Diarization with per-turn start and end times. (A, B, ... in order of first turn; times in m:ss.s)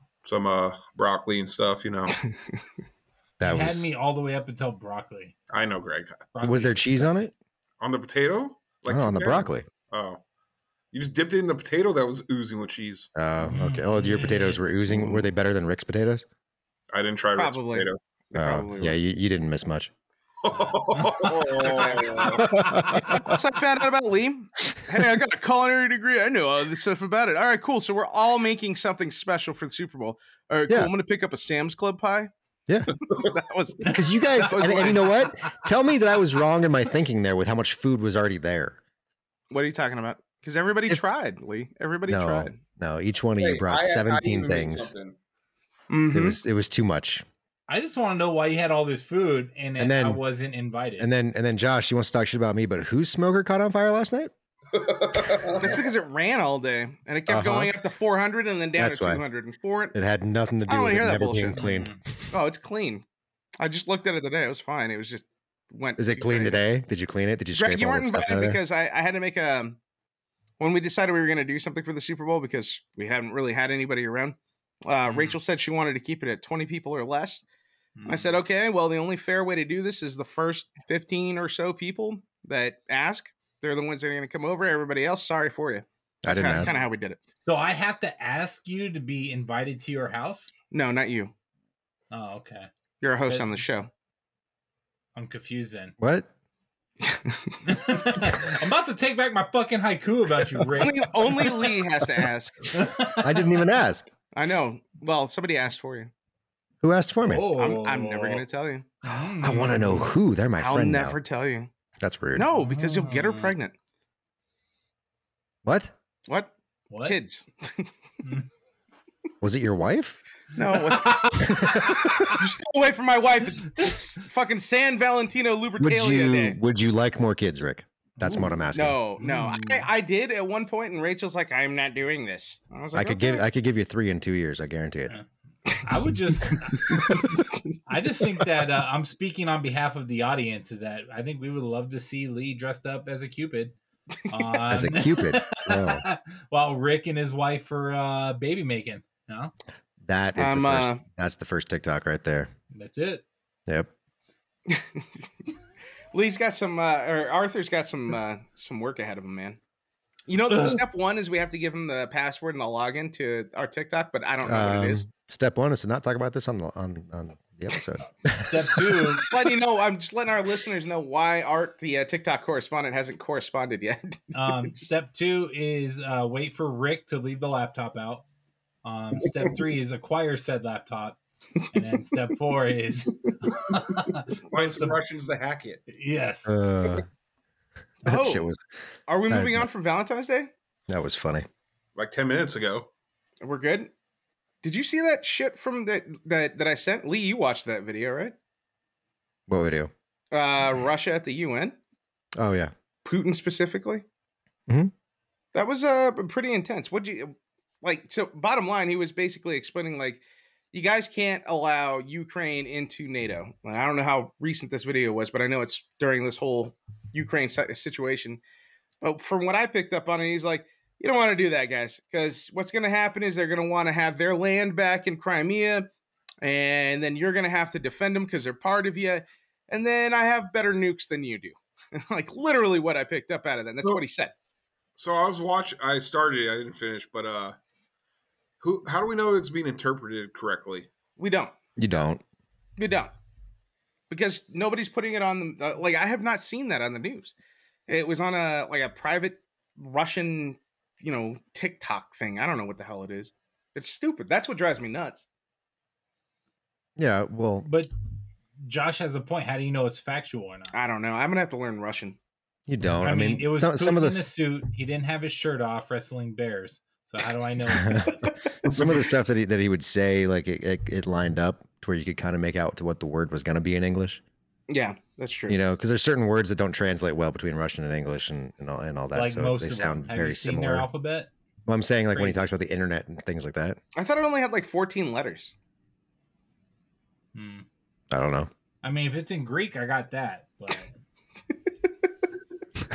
0:00.2-0:02.2 A
0:03.4-0:03.9 B
0:03.4-0:05.3 C
0:05.5-0:06.3 A
0:06.3-0:07.3 C
0:06.4-0:07.3 B
0:07.8-0:10.2 A
0:08.9-0:09.6 B
0:10.9-0:13.1 A
0:13.1-0:16.2 B
0:13.4-0:14.7 C
0:16.9-0:18.0 A
0:17.3-0:19.0 D
0:18.3-0:19.9 B
0:20.4-0:22.5 A
0:20.9-0:21.2 C
0:21.6-0:22.2 D
0:22.4-0:23.3 B
0:22.7-0:23.2 C
0:23.1-0:32.3 D
0:33.1-0:35.2 D
0:33.8-0:38.8 B
0:34.6-0:35.5 C
0:39.5-0:42.6 D
0:42.1-0:44.9 B
0:43.4-0:45.2 A
0:45.9-0:46.4 D
0:46.1-0:47.2 B
0:47.7-0:51.1 C
0:49.8-0:50.2 B
0:51.0-0:54.3 B
0:54.7-0:55.8 A
0:55.6-1:00.0 D
0:57.3-0:57.7 B
0:58.8-0:59.2 B
0:59.9-1:02.0 B
1:00.7-1:01.6 D
1:01.6-1:02.0 C
1:02.3-1:03.0 D
1:03.6-1:06.6 D
1:06.0-1:08.6 B
1:07.5-1:09.8 D
1:10.6-1:17.4 D
1:15.1-1:15.4 C
1:18.0-1:18.4 C
1:18.0-1:27.2 D
1:26.2-1:26.7 B
1:27.4-1:30.5 C
1:30.7-1:31.3 D
1:32.1-1:32.7 C
1:33.0-1:33.9 D
1:33.3-1:33.6 C
1:35.2-1:35.9 C
1:36.0-1:36.3 B
1:37.0-1:37.6 D
1:37.6-1:41.8 C
1:40.8-1:42.7 D
1:42.7-1:43.6 C
1:43.2-1:44.1 B
1:44.3-1:46.1 D
1:46.8-1:47.5 B
1:47.2-1:48.4 C
1:47.5-1:48.9 D
1:49.0-1:50.1 C
1:49.1-1:51.2 B
1:50.6-1:51.7 D
1:52.0-1:52.5 B
1:52.3-1:53.7 D
1:52.5-1:53.5 C
1:55.6-1:55.9 B
1:56.3-1:57.9 D
1:56.9-1:57.2 C
1:59.4-2:00.2 B
2:00.5-2:01.3 D
2:00.7-2:02.4 C
2:01.4-2:02.3 B
2:02.2-2:06.6 D
2:05.8-2:09.0 B
2:08.2-2:08.6 C
2:08.7-2:13.4 D
2:09.2-2:09.9 C
2:12.9-2:15.2 B
2:15.1-2:17.3 C
2:16.5-2:17.6 D
2:17.9-2:23.7 C
2:24.3-2:29.5 C
2:24.7-2:26.0 B
2:30.0-2:32.5 B
2:30.4-2:31.0 D
2:32.7-2:33.2 C
2:34.7-2:35.1 D
2:36.1-2:39.6 D
2:40.3-2:45.0 D
2:40.5-2:40.8 C
2:44.4-2:49.2 B
2:48.4-2:49.4 C
2:49.3-2:54.9 D
2:54.3-2:58.2 C
2:58.8-3:05.0 C
3:04.5-3:05.8 A
3:05.9-3:06.5 C
3:06.4-3:07.0 B
3:08.0-3:08.4 D
3:08.0-3:08.6 B
3:09.1-3:10.5 D
3:09.3-3:09.7 B
3:10.9-3:11.5 B
3:12.0-3:12.9 A
3:13.4-3:13.9 D
3:14.6-3:18.3 D
3:19.5-3:19.9 B
3:20.3-3:21.8 D
3:22.4-3:22.7 B
3:23.0-3:24.0 D
3:25.5-3:38.4 D
3:39.0-3:45.9 D
3:46.4-3:54.3 D
3:55.0-3:57.6 A
3:58.6-4:00.9 A
4:01.2-4:01.5 D
4:01.8-4:02.2 B
4:02.8-4:03.1 D
4:04.1-4:07.3 D
4:07.9-4:15.2 D
4:17.0-4:17.7 B
4:17.6-4:17.9 C
4:18.6-4:20.7 C
4:20.7-4:22.2 D
4:22.7-4:24.3 B
4:23.0-4:28.3 C
4:27.7-4:34.2 B
4:34.7-4:35.6 D
4:35.5-4:40.9 B
4:39.1-4:41.3 C
4:41.7-4:43.8 B
4:42.1-4:42.4 C
4:44.0-4:45.5 D
4:47.3-4:47.6 C
4:48.1-4:48.5 B
4:48.8-4:50.9 C